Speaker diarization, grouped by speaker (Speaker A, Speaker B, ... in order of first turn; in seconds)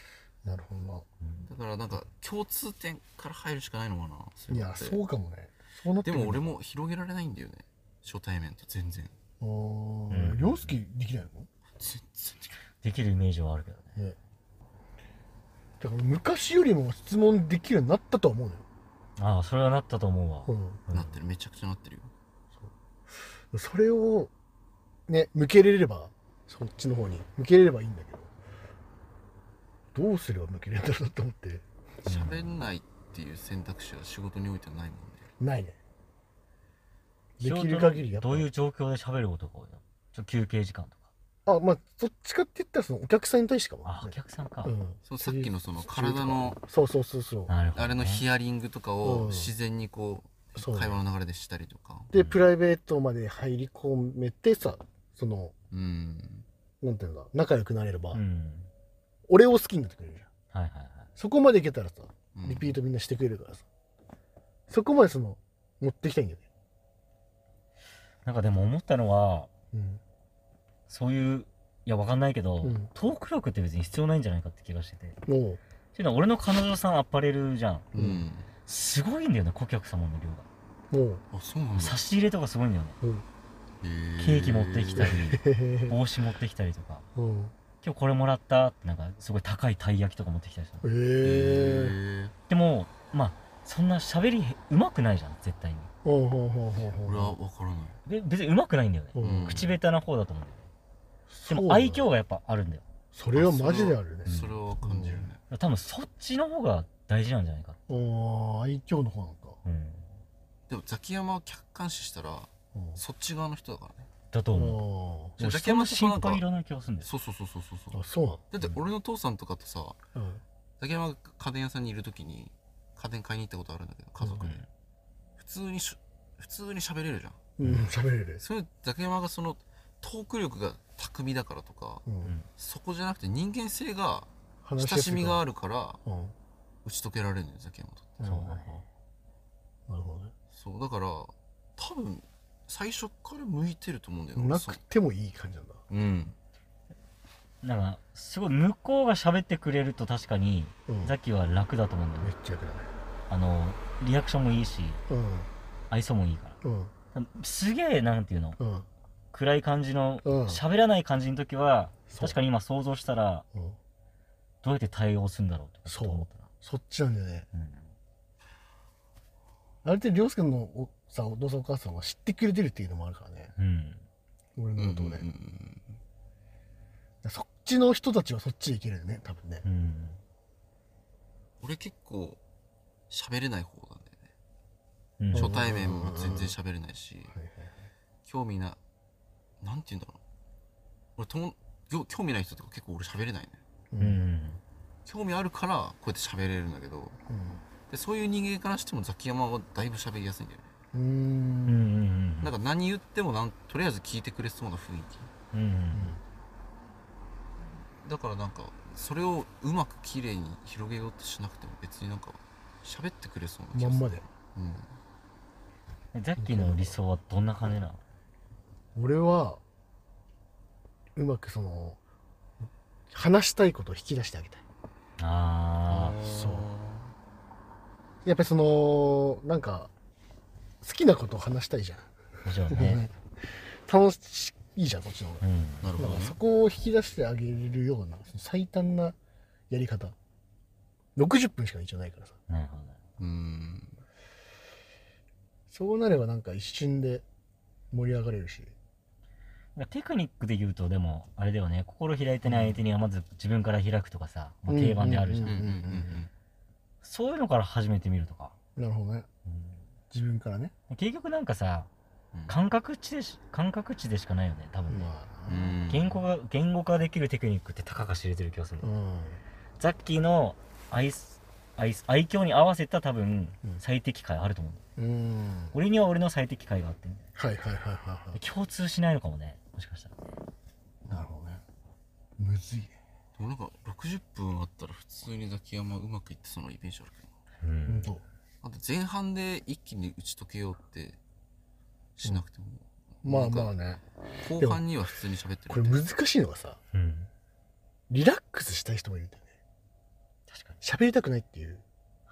Speaker A: 0.4-1.1, 4.5-6.4, 9.4-11.5, 15.8-18.6, 20.4-20.8, 23.5-24.3, 25.1-28.3, 29.9-31.6, 35.4-35.8, 37.4-38.5, 41.5-47.5, 49.0-49.5, 50.5-51.0, 52.1-55.5, 56.8-58.2, 59.3-60.3, 61.2-63.6, 64.7-66.5, 69.7-70.0, 72.6-72.9, 75.2-75.6, 77.9-78.2, 80.9-81.2, 83.0-83.2, 84.9-86.0, 87.2-87.5, 90.8-92.0, 96.0-97.3, 99.1-99.6, 101.3-102.1, 103.1-105.3, 107.9-109.6, 112.7-113.0, 114.5-115.4, 117.9-118.4, 120.1-120.4, 127.6-128.4, 132.1-132.3, 134.6-135.4, 136.0-136.3, 138.2-138.8, 139.9-140.3, 144.3-145.8, 150.9-151.2, 152.2-152.9, 155.1-155.5, 156.6-156.9, 158.6-158.9, 160.2-160.6, 162.1-162.4, 165.9-167.5, 169.8-173.5, 174.6-175.2, 177.2-179.6, 185.3-186.5, 187.3-187.8, 193.9-194.3, 197.3-197.6, 200.9-201.9, 205.9-206.2, 213.7-214.2, 216.4-217.0, 218.9-219.6, 221.2-222.0, 223.1-224.6, 226.2-226.7, 228.2-229.9, 230.8-232.1, 232.7-235.4, 235.9-239.2, 239.7-240.1, 241.2-242.4, 245.7-247.2, 247.9-248.7, 252.4-252.8, 254.7-256.2, 258.8-259.3, 260.1-260.7, 264.9-265.8, 268.8-269.4, 275.0-275.8, 277.4-278.4, 281.0-281.6, 282.4-282.9, 287.9-288.2, 293.2-294.0, 294.6-294.8, 295.7-296.8, 298.1-299.4, 300.8-301.8
Speaker B: 1.4-5.0, 6.0-9.1, 11.8-12.6, 20.9-22.1, 32.0-35.3, 45.0-46.6, 47.7-52.1, 55.7-56.5, 62.3-62.8, 77.9-78.5, 81.3-82.0, 83.8-85.1, 91.2-92.3, 97.0-98.0, 99.2-99.8, 103.3-105.4, 110.7-114.1, 115.4-116.4, 117.0-120.0, 120.8-124.7, 125.4-127.4, 128.4-132.0, 132.6-136.0, 136.8-138.2, 140.5-144.8, 145.9-146.3, 174.8-176.0, 181.6-182.4, 183.1-184.3, 185.3-187.3, 188.2-188.8, 189.6-190.2, 191.2-193.6, 195.1-197.2, 197.9-200.7, 202.4-205.3, 208.0-215.0, 225.9-227.1, 235.8-236.4, 243.2-244.0, 255.4-256.3, 265.5-266.2, 283.4-287.3, 288.6-291.2, 292.2-293.7, 294.4-296.0
Speaker C: 10.1-10.8, 12.8-13.9, 19.2-21.1, 32.0-32.5, 37.4-41.0, 43.8-44.8, 47.5-48.2, 52.1-52.5, 58.1-58.7, 60.5-61.1, 68.2-69.5, 70.9-75.2, 75.9-77.9, 78.7-80.5, 81.8-83.0, 84.2-87.0, 87.8-90.9, 92.5-95.9, 98.0-100.7, 101.5-102.8, 104.2-104.5, 105.5-107.8, 109.6-110.1, 114.3-114.8, 115.4-117.1, 132.2-132.5, 138.2-138.8, 147.6-152.3, 153.3-155.0, 155.9-156.6, 157.1-158.6, 159.3-163.4, 164.6-166.5, 167.5-167.9, 173.6-174.0, 179.6-180.2, 185.2-185.6, 194.0-194.6, 201.7-202.5, 205.5-206.2, 216.1-218.0, 225.2-226.2, 232.4-233.0, 235.4-235.9, 242.5-243.0, 249.8-255.6, 257.0-258.5, 259.4-259.8, 260.9-261.9, 262.5-265.1, 265.9-268.9, 269.8-274.8, 275.7-277.2, 278.3-280.1, 287.6-288.1, 296.9-297.3, 300.5-300.8